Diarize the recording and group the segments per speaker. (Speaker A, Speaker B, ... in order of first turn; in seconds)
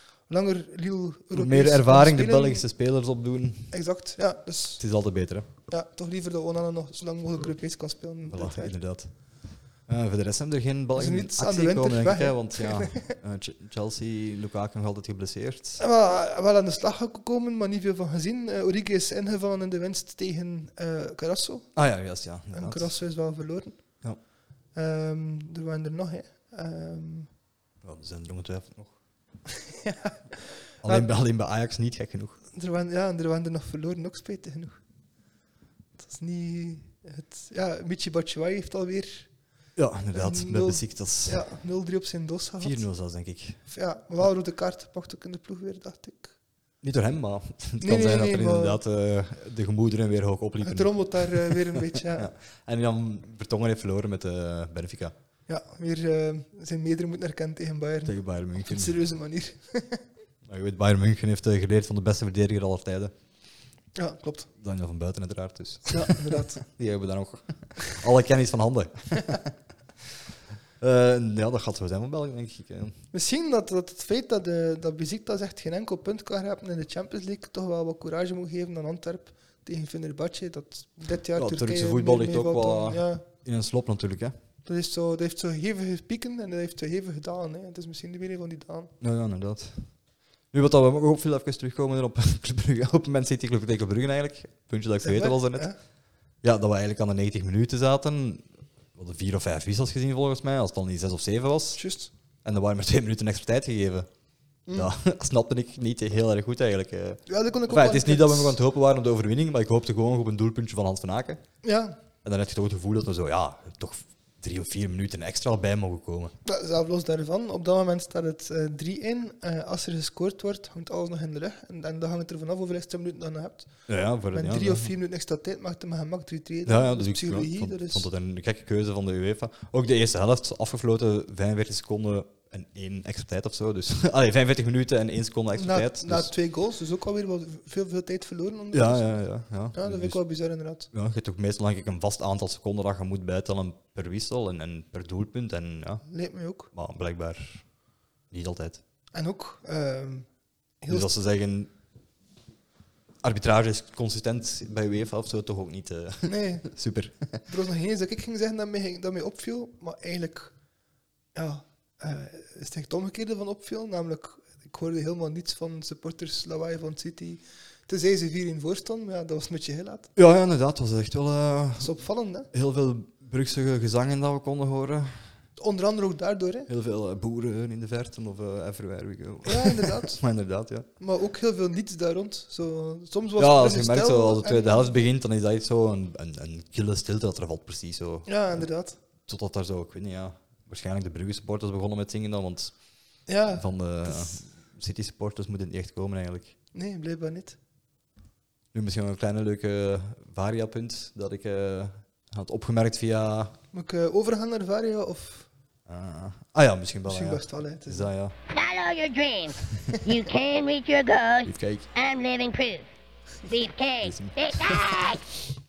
Speaker A: 0.3-2.6, 3.7-4.8, 5.7-8.7, 10.9-13.1, 15.8-21.7, 22.5-23.8, 24.7-27.3, 29.5-31.1, 32.5-34.8, 36.0-39.3, 40.1-42.8, 43.7-46.3, 47.8-48.8, 50.6-52.3, 55.5-60.0, 63.9-64.5, 65.9-66.6, 73.1-83.2, 84.6-88.9, 95.0-95.8, 101.8-102.1, 104.7-104.9, 107.3-108.6, 111.6-112.0, 116.4-123.7, 124.3-128.1, 135.5-139.2, 139.7-140.9, 146.1-146.7, 149.1-150.3, 150.8-151.1, 156.2-156.7, 157.4-160.5, 161.3-170.1, 171.8-172.5, 175.6-176.7, 179.4-180.2, 181.0-185.0, 188.2-188.9, 193.3-194.4, 196.7-197.6, 203.7-205.5, 207.1-208.1
Speaker B: 1.3-3.7, 4.8-5.5, 8.3-15.8, 21.7-23.0, 27.8-28.9, 30.8-32.4, 39.8-41.4, 42.6-43.6, 46.8-55.1, 58.0-59.0, 60.5-63.1, 64.6-69.5, 70.8-73.0, 81.4-84.3, 89.0-89.9, 90.5-95.7, 96.4-101.8, 102.4-104.1, 104.7-111.4, 112.2-116.3, 123.9-124.9, 126.7-136.3, 138.7-140.2, 140.9-146.1, 146.7-147.7, 148.3-148.8, 150.9-151.7, 153.2-157.4, 170.1-171.9, 172.5-175.3, 176.7-180.9, 183.4-188.6, 189.2-192.7, 193.5-196.5, 198.7-203.6, 205.9-208.3, 211.4-211.9, 214.0-214.8
Speaker C: 208.5-212.9, 213.4-215.2